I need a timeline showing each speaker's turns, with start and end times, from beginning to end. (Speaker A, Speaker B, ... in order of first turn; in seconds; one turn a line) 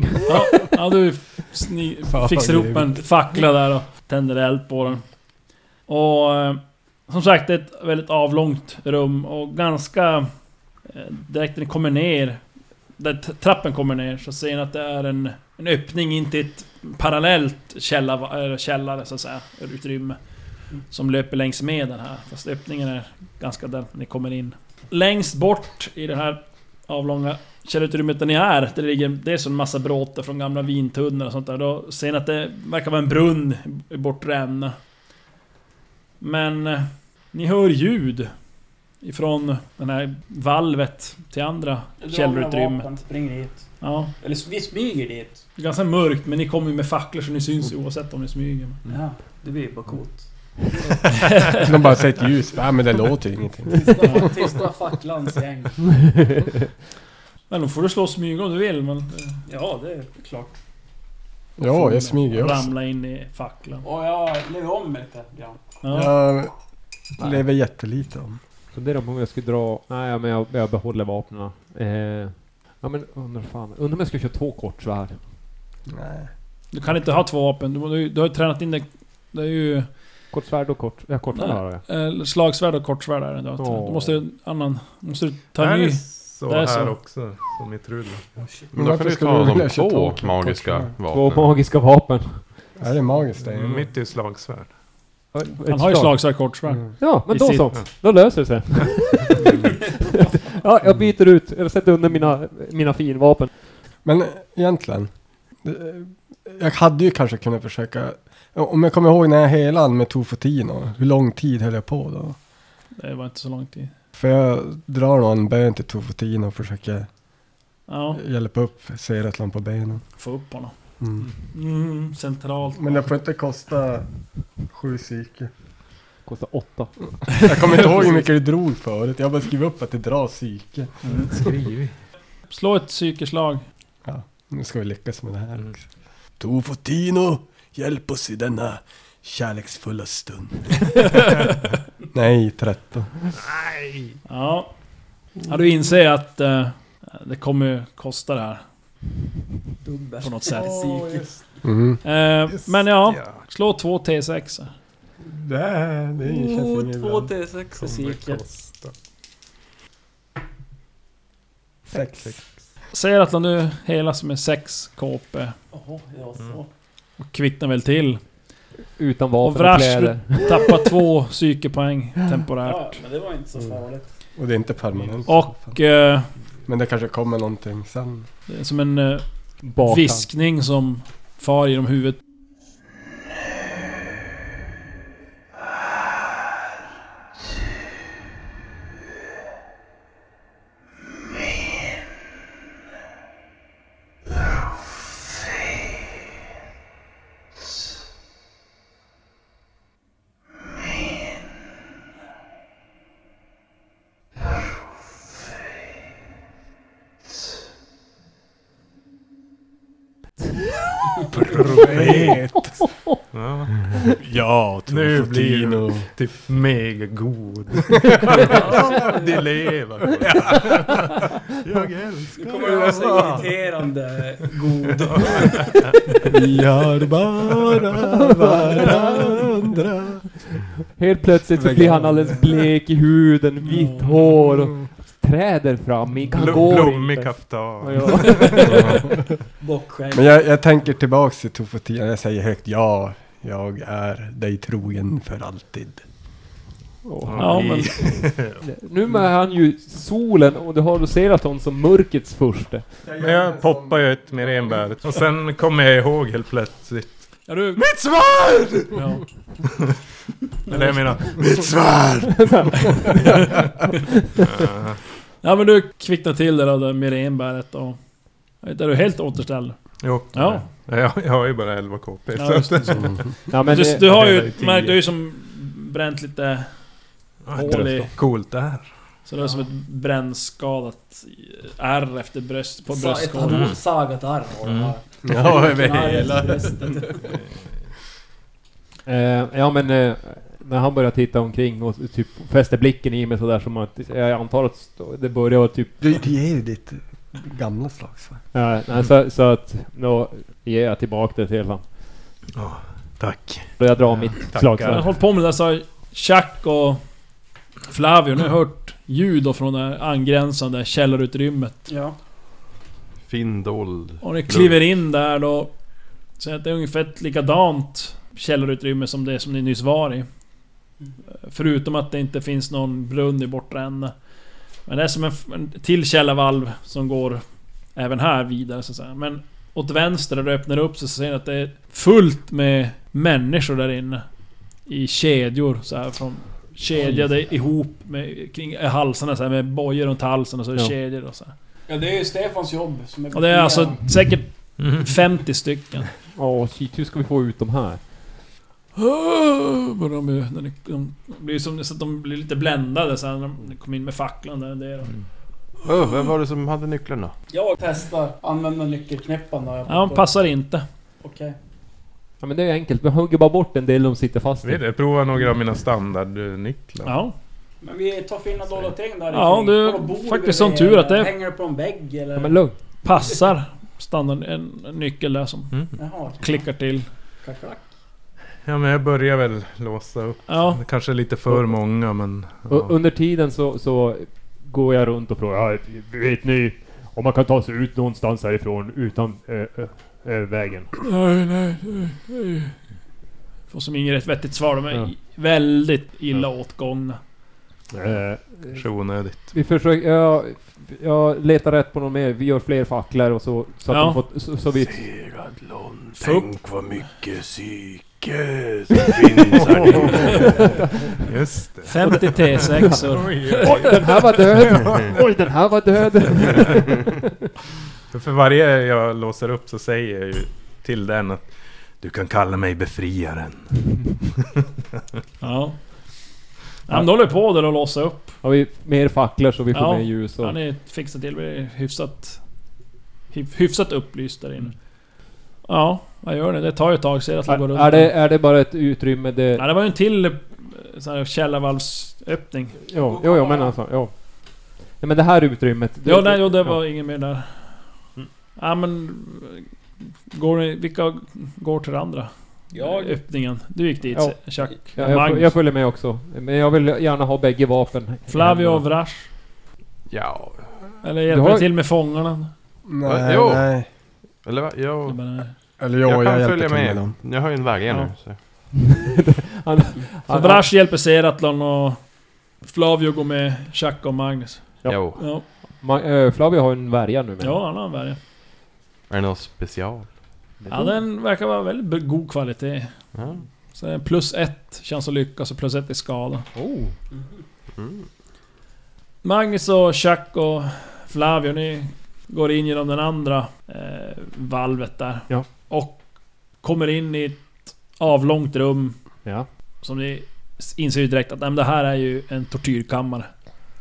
Speaker A: 0.3-5.0
Speaker B: 2.1-3.1
Speaker A: 5.9-10.3
Speaker A: 10.8-12.4
Speaker A: 13.0-20.2
Speaker A: 20.7-34.8
Speaker A: 36.2-38.3
Speaker A: 39.0-43.0
Speaker C: 42.0-45.4
Speaker A: 43.8-44.1
Speaker A: 45.6-48.8
Speaker C: 48.9-51.1
Speaker A: 51.2-51.6
Speaker B: 51.5-54.4
Speaker C: 53.7-55.8
Speaker A: 54.0-54.3
Speaker D: 55.9-56.5
Speaker A: 57.5-59.4
Speaker C: 59.5-60.5
Speaker B: 61.6-62.7
Speaker A: 61.7-63.8
Speaker C: 63.8-65.6
Speaker A: 65.8-66.1
Speaker B: 65.9-66.5
Speaker B: 67.2-68.4
Speaker D: 68.7-75.2
Speaker B: 75.9-76.3
Speaker A: 76.7-80.0
Speaker D: 80.3-81.8
Speaker A: 81.3-87.0
Speaker D: 83.6-84.2
Speaker E: 85.6-88.2
Speaker C: 88.4-88.7
Speaker B: 88.8-90.9
Speaker F: 88.8-91.7
Speaker D: 91.1-92.8
Speaker B: 92.8-93.9
Speaker E: 93.5-94.7
Speaker D: 95.3-103.5
Speaker A: 95.7-97.7
Speaker B: 100.8-101.1
Speaker B: 104.0-105.1
Speaker B: 105.6-112.4
Speaker A: 113.0-113.9
Speaker B: 114.2-117.1
Speaker A: 117.9-118.2
Speaker B: 118.1-120.0
Speaker A: 120.2-120.7
Speaker B: 121.0-121.3
Speaker A: 121.2-123.0
Speaker B: 122.8-125.5
Speaker D: 126.3-128.1
Speaker B: 127.3-131.6
Speaker E: 131.0-131.9
Speaker A: 132.5-133.7
Speaker B: 134.1-141.3
Speaker B: 142.1-143.1
Speaker E: 143.4-144.2
Speaker A: 144.3-144.7
Speaker A: 145.5-148.6
Speaker C: 149.8-151.6
Speaker A: 150.2-150.8
Speaker B: 151.6-152.0
Speaker A: 152.0-154.7
Speaker E: 152.5-153.4
Speaker B: 155.2-157.3
Speaker C: 156.2-158.4
Speaker E: 157.8-158.9
Speaker B: 161.9-162.4
Speaker E: 161.9-162.4
Speaker A: 162.9-165.5
Speaker C: 165.7-166.7
Speaker A: 167.2-168.2
Speaker D: 169.0-170.7
Speaker A: 169.4-173.0
Speaker C: 172.6-174.1
Speaker B: 174.4-175.8
Speaker A: 175.3-176.3
Speaker B: 176.7-178.3
Speaker A: 178.5-179.2
Speaker D: 179.6-180.3
Speaker A: 179.8-182.2
Speaker E: 211.2-212.4
Speaker B: 211.5-212.9
Speaker D: 212.0-213.2
Speaker E: 213.3-214.1
Speaker B: 214.2-216.1
Speaker E: 214.9-223.5
Speaker B: 218.1-218.8
Speaker C: 218.4-219.3
Speaker C: 222.4-226.3
Speaker B: 222.6-223.5
Speaker E: 225.0-226.0
Speaker B: 226.2-230.3
Speaker D: 228.2-229.4
Speaker D: 231.0-239.0
Speaker B: 231.5-232.6
Speaker C: 233.7-234.0
Speaker E: 236.3-239.0
Speaker B: 238.7-239.1
Speaker C: 239.6-240.3
Speaker B: 240.1-246.0
Speaker D: 247.0-253.0
Speaker E: 247.2-248.6
Speaker A: 247.4-248.0
Speaker B: 253.0-254.9
Speaker E: 253.2-259.0
Speaker A: 257.5-257.9
Speaker A: 258.9-259.2
Speaker E: 260.7-263.6
Speaker D: 262.3-262.7
Speaker E: 264.4-265.0
Speaker A: 265.4-268.0
Speaker A: 268.6-270.7
Speaker E: 270.0-273.2
Speaker A: 272.4-276.7
Speaker B: 273.0-273.2
Speaker D: 273.5-274.5
Speaker E: 274.1-274.9
Speaker E: 277.4-278.9
Speaker A: 277.5-278.1
Speaker D: 277.6-278.1
Speaker A: 279.3-283.7
Speaker C: 279.4-279.7
Speaker C: 282.9-287.4
Speaker E: 283.5-283.8
Speaker E: 284.6-284.9
Speaker B: 285.2-287.1
Speaker D: 289.1-296.2
Speaker B: 296.0-298.4
Speaker D: 298.5-301.9
Speaker E: 302.5-305.1
Speaker D: 303.8-305.1
Speaker A: 304.9-307.0
Speaker A: 307.9-311.9
Speaker C: 311.9-312.2
Speaker F: 313.2-314.8
Speaker A: 314.2-315.7
Speaker A: 316.4-320.3
Speaker A: 321.3-324.1
Speaker A: 324.9-327.4
Speaker A: 327.9-334.3
Speaker A: 334.8-341.5
Speaker D: 337.0-337.3
Speaker C: 341.9-344.0
Speaker A: 343.3-346.1
Speaker E: 344.8-345.1
Speaker D: 346.3-348.1
Speaker A: 349.0-355.1
Speaker F: 355.8-357.3
Speaker C: 357.5-360.4
Speaker A: 359.9-360.9
Speaker C: 361.2-361.6
Speaker D: 362.4-364.8
Speaker E: 364.6-367.2
Speaker A: 367.1-367.3
Speaker C: 367.8-372.6
Speaker A: 369.3-371.3
Speaker D: 372.4-372.8
Speaker A: 373.0-377.1
Speaker C: 376.0-376.7
Speaker C: 377.4-377.9
Speaker E: 378.6-382.9
Speaker A: 380.5-380.8
Speaker D: 382.7-390.9
Speaker A: 391.0-392.8
Speaker A: 393.7-397.2
Speaker D: 397.9-405.1
Speaker E: 398.7-399.6
Speaker A: 403.9-404.2
Speaker F: 404.9-410.6
Speaker A: 406.2-406.5
Speaker E: 409.5-410.6
Speaker A: 410.0-410.6
Speaker D: 410.4-411.2
Speaker E: 411.2-415.2
Speaker A: 411.9-414.0
Speaker D: 412.0-417.3
Speaker E: 418.1-424.0
Speaker A: 425.4-426.4
Speaker A: 426.9-428.4
Speaker D: 426.9-427.2
Speaker D: 428.4-430.6
Speaker A: 429.7-432.4
Speaker A: 433.3-434.9
Speaker A: 435.6-438.1
Speaker D: 437.5-439.7
Speaker A: 439.6-442.8
Speaker D: 442.9-444.1
Speaker C: 443.0-443.8
Speaker D: 444.8-446.9
Speaker A: 446.1-447.8
Speaker A: 448.6-449.7
Speaker A: 450.3-455.6
Speaker C: 452.7-453.2
Speaker D: 454.1-458.9
Speaker A: 458.3-459.3
Speaker F: 460.1-461.0
Speaker A: 461.0-462.5
Speaker D: 461.3-461.7
Speaker B: 462.9-463.9
Speaker F: 463.1-463.8
Speaker F: 464.4-465.4
Speaker A: 465.1-465.5
Speaker B: 465.8-467.2
Speaker F: 466.0-468.4
Speaker D: 468.7-470.7
Speaker A: 470.3-475.4
Speaker D: 474.8-477.6
Speaker F: 474.9-475.4
Speaker A: 477.4-478.2
Speaker F: 479.1-480.1
Speaker D: 480.6-481.0
Speaker A: 480.7-483.1
Speaker F: 483.1-483.4
Speaker A: 483.7-486.5
Speaker D: 486.5-486.9
Speaker C: 487.1-487.4
Speaker F: 487.7-488.1
Speaker A: 489.2-496.0
Speaker A: 496.6-499.2
Speaker A: 499.8-503.3